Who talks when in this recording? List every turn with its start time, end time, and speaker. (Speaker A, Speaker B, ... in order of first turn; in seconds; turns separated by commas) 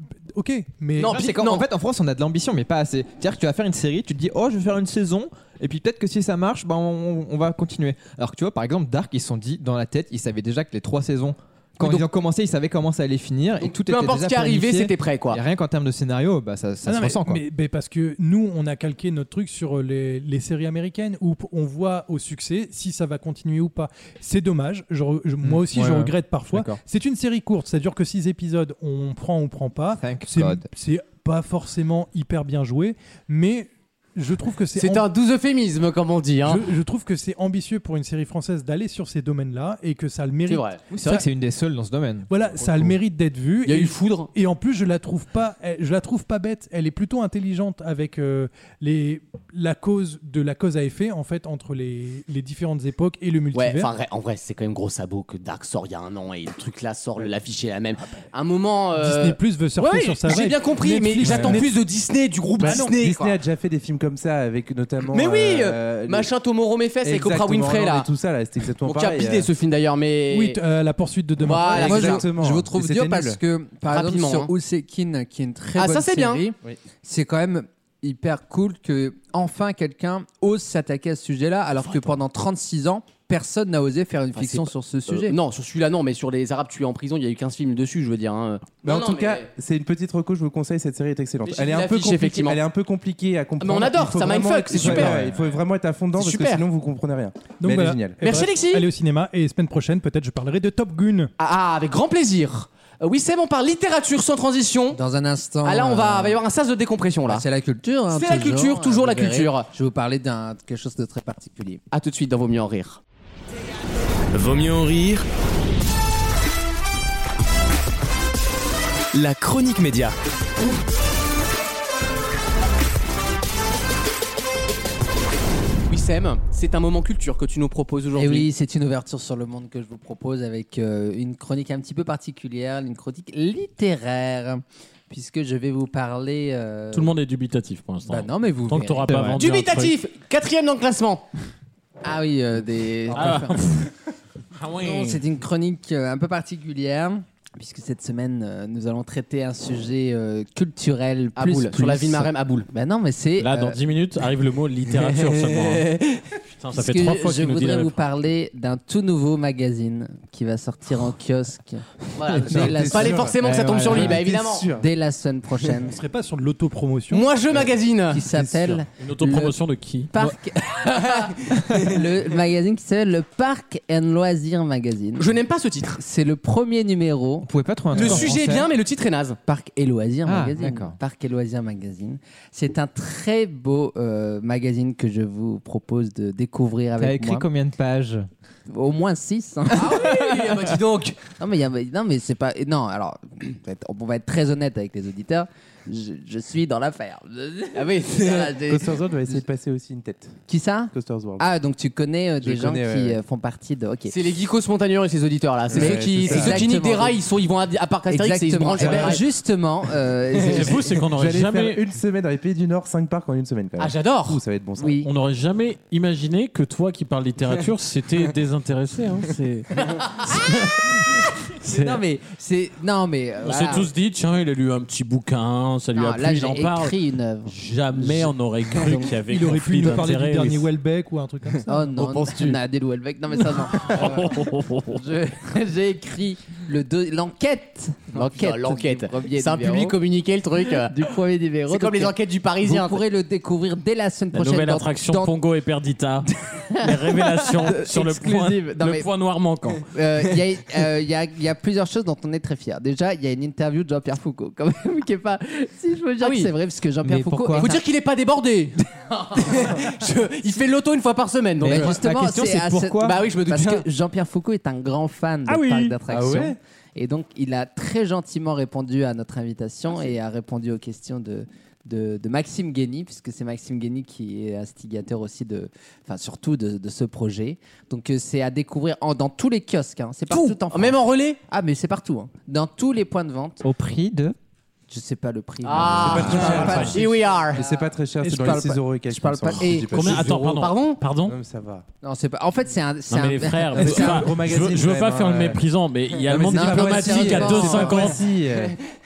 Speaker A: 0.3-1.2, Speaker B: 1.0-1.7, Speaker C: 1.0-17.4, Speaker B: 13.6-15.4, Speaker A: 16.9-35.1, Speaker C: 25.4-26.8, Speaker C: 30.0-30.7, Speaker B: 34.8-36.7, Speaker A: 36.5-41.2, Speaker B: 40.5-40.9, Speaker C: 40.9-42.8, Speaker A: 42.3-53.9, Speaker B: 43.6-44.3, Speaker B: 53.5-63.4, Speaker A: 59.0-61.8, Speaker D: 61.2-61.6, Speaker A: 62.6-63.0, Speaker D: 62.6-66.3, Speaker B: 65.1-68.1, Speaker D: 67.0-69.5, Speaker B: 68.8-70.6, Speaker A: 70.3-72.1, Speaker B: 71.4-72.2, Speaker E: 71.8-85.4, Speaker D: 71.8-73.4, Speaker B: 73.9-74.5, Speaker B: 75.8-76.5, Speaker B: 84.4-89.5, Speaker D: 88.8-98.2, Speaker B: 91.5-92.6, Speaker B: 93.6-95.4, Speaker C: 94.8-95.2, Speaker B: 96.2-96.6, Speaker A: 97.6-101.3, Speaker B: 98.2-98.9, Speaker B: 101.4-105.0, Speaker E: 104.9-106.4, Speaker B: 105.6-107.5, Speaker E: 107.3-111.8, Speaker B: 108.1-109.7, Speaker B: 111.9-113.0, Speaker F: 114.3-115.3, Speaker F: 119.1-120.2, Speaker B: 125.9-128.5, Speaker E: 128.2-137.1, Speaker G: 136.9-140.0, Speaker E: 138.1-139.1, Speaker C: 139.1-139.4, Speaker B: 139.4-141.3, Speaker E: 142.0-143.8, Speaker G: 143.1-143.9, Speaker G: 144.6-145.2, Speaker E: 144.8-153.8, Speaker B: 151.4-152.7, Speaker G: 153.4-155.9, Speaker B: 155.6-156.2, Speaker G: 156.6-158.0, Speaker E: 156.7-163.3, Speaker B: 162.2-164.7, Speaker D: 162.4-164.9, Speaker C: 163.4-164.2, Speaker E: 164.8-166.0, Speaker A: 165.8-167.3, Speaker B: 167.1-168.3, Speaker E: 168.1-169.6, Speaker G: 168.9-170.1, Speaker E: 170.1-175.4, Speaker B: 170.9-171.8, Speaker B: 175.2-176.0, Speaker E: 176.0-178.3, Speaker C: 177.4-178.7, Speaker B: 177.9-179.4, Speaker E: 179.5-187.5, Speaker C: 180.3-181.0, Speaker C: 187.0-188.3, Speaker E: 188.7-190.1, Speaker B: 189.7-191.2, Speaker E: 191.4-199.4, Speaker B: 197.8-198.7, Speaker D: 198.6-200.4, Speaker E: 200.5-204.2, Speaker D: 200.9-201.5, Speaker D: 202.4-203.2, Speaker B: 204.1-209.2, Speaker D: 205.7-206.8, Speaker E: 205.7-207.2, Speaker E: 208.1-210.8, Speaker D: 208.7-209.2, Speaker G: 210.5-211.8, Speaker D: 211.1-215.0, Speaker B: 213.8-214.4, Speaker E: 214.8-215.1, Speaker G: 215.0-222.0, Speaker E: 221.6-223.9, Speaker G: 223.4-226.9, Speaker E: 225.9-229.1, Speaker G: 227.5-230.7, Speaker A: 229.3-231.9, Speaker E: 231.7-240.0, Speaker G: 232.0-232.6, Speaker G: 233.5-235.0, Speaker B: 238.1-241.0, Speaker E: 240.8-245.3, Speaker B: 241.7-243.0, Speaker G: 244.3-249.9, Speaker E: 246.7-249.1, Speaker E: 249.9-257.8, Speaker B: 256.2-256.5, Speaker C: 257.0-257.7, Speaker B: 257.6-262.0, Speaker C: 261.6-263.2, Speaker E: 261.6-283.6, Speaker B: 263.0-263.9, Speaker G: 265.5-265.9, Speaker D: 266.1-266.6, Speaker B: 280.3-281.4, Speaker C: 283.6-284.4, Speaker E: 284.9-290.1, Speaker B: 285.6-287.6, Speaker D: 285.8-290.6, Speaker G: 286.6-287.0, Speaker G: 289.9-291.4, Speaker B: 290.2-291.0, Speaker D: 291.2-291.9, Speaker E: 292.0-294.3, Speaker G: 293.1-298.2, Speaker D: 293.8-295.6, Speaker D: 296.3-298.8, Speaker E: 296.5-298.2